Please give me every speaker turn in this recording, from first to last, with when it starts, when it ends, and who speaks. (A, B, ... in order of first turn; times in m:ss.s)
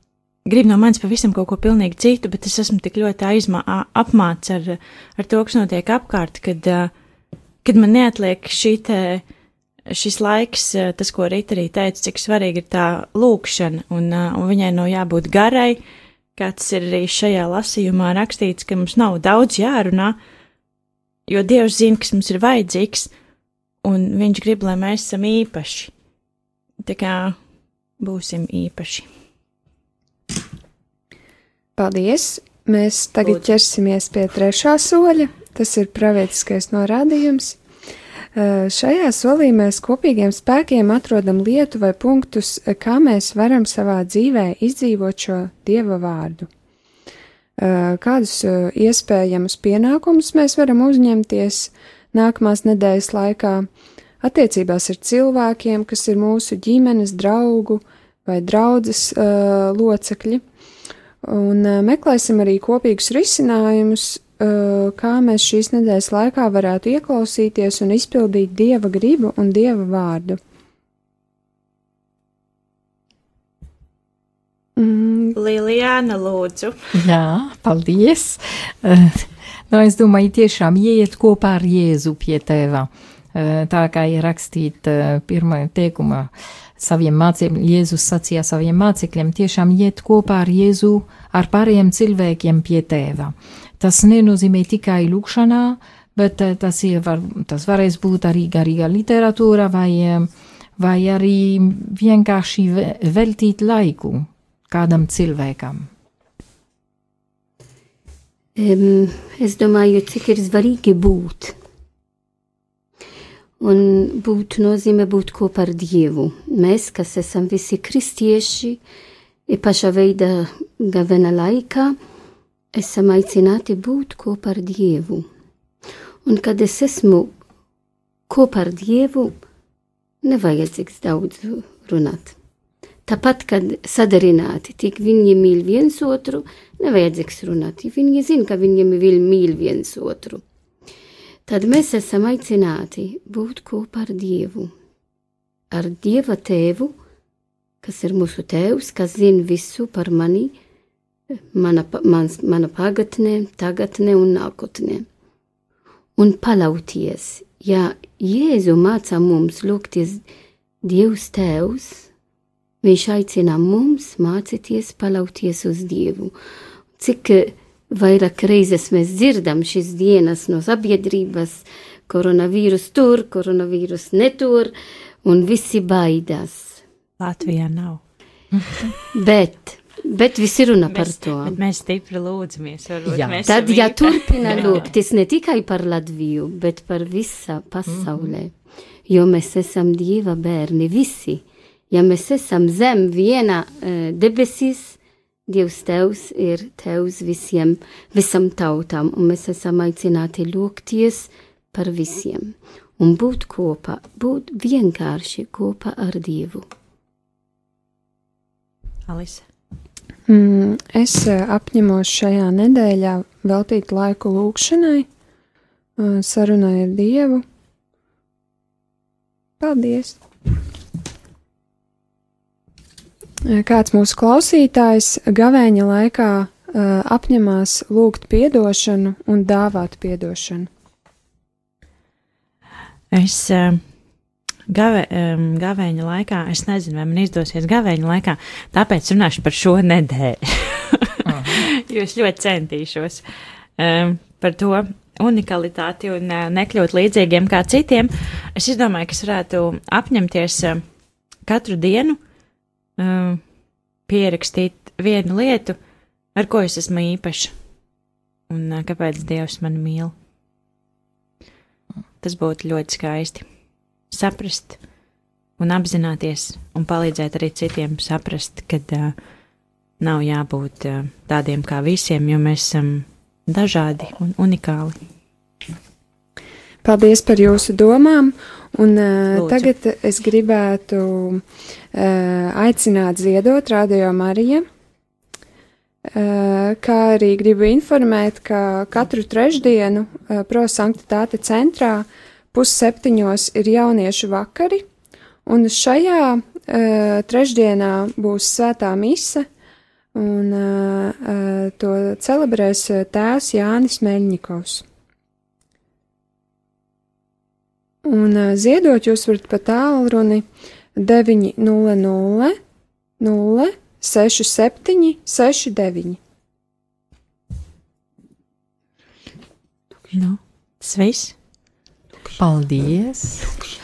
0:00.5-0:06.9 A
0:07.6-0:09.2 A
0:09.9-0:15.8 A
0:16.4-0:20.2 A
0:21.3-0:23.1 A
0:23.8-0:25.9 A
0:26.8-0:27.4 A
0:28.0-0:29.1 A
0:31.8-0:37.6 B
0:38.4-0:46.5 B
0:47.6-0:53.7 B
0:54.2-1:00.4 B
1:01.2-1:10.4 B
1:14.8-1:15.4 B
1:15.4-1:16.8 A
1:16.9-1:45.9 C
1:48.6-1:51.6 D
1:53.6-1:58.8 D
1:59.5-2:02.0 D
2:02.7-2:05.3 D
2:06.2-2:07.3 D
2:08.3-2:09.4 D
2:10.2-2:12.4 D
2:13.1-2:20.4 D
2:21.5-2:24.7 D
2:25.7-2:27.0 D
2:27.8-2:30.6 D
2:31.5-2:35.1 D
2:36.2-2:40.2 D
2:40.8-2:42.1 D
2:42.8-2:46.3 D
2:47.0-2:54.7 D
2:55.2-2:56.8 D
2:57.2-2:58.0 A
2:58.5-2:58.9 C
2:59.1-3:01.6 D
3:00.9-3:04.9 A
3:03.0-3:03.5 C
3:03.5-3:08.5 D
3:04.5-3:04.9 C
3:07.9-3:08.3 C
3:09.1-3:26.7 D
3:29.1-3:29.4 A
3:30.3-3:35.1 B
3:36.0-3:37.4 B
3:39.6-3:40.2 B
3:43.5-3:50.7 B
3:53.1-3:53.8 A
3:54.7-4:03.2 A
4:01.2-4:01.6 C
4:03.8-4:10.8 A
4:11.4-4:12.2 A
4:13.0-4:13.4 A
4:14.1-4:15.8 A
4:16.4-4:17.6 A
4:18.5-4:20.1 A
4:22.2-4:23.5 A
4:24.1-4:24.8 A
4:25.6-4:29.2 A
4:30.0-4:35.0 A
4:36.8-4:44.6 B
4:39.3-4:39.7 A
4:46.1-4:54.8 B
4:55.5-4:59.5 B
5:00.2-5:04.8 B
5:08.0-5:12.6 B
5:13.2-5:16.2 B
5:20.1-5:21.4 A
5:22.4-5:23.6 C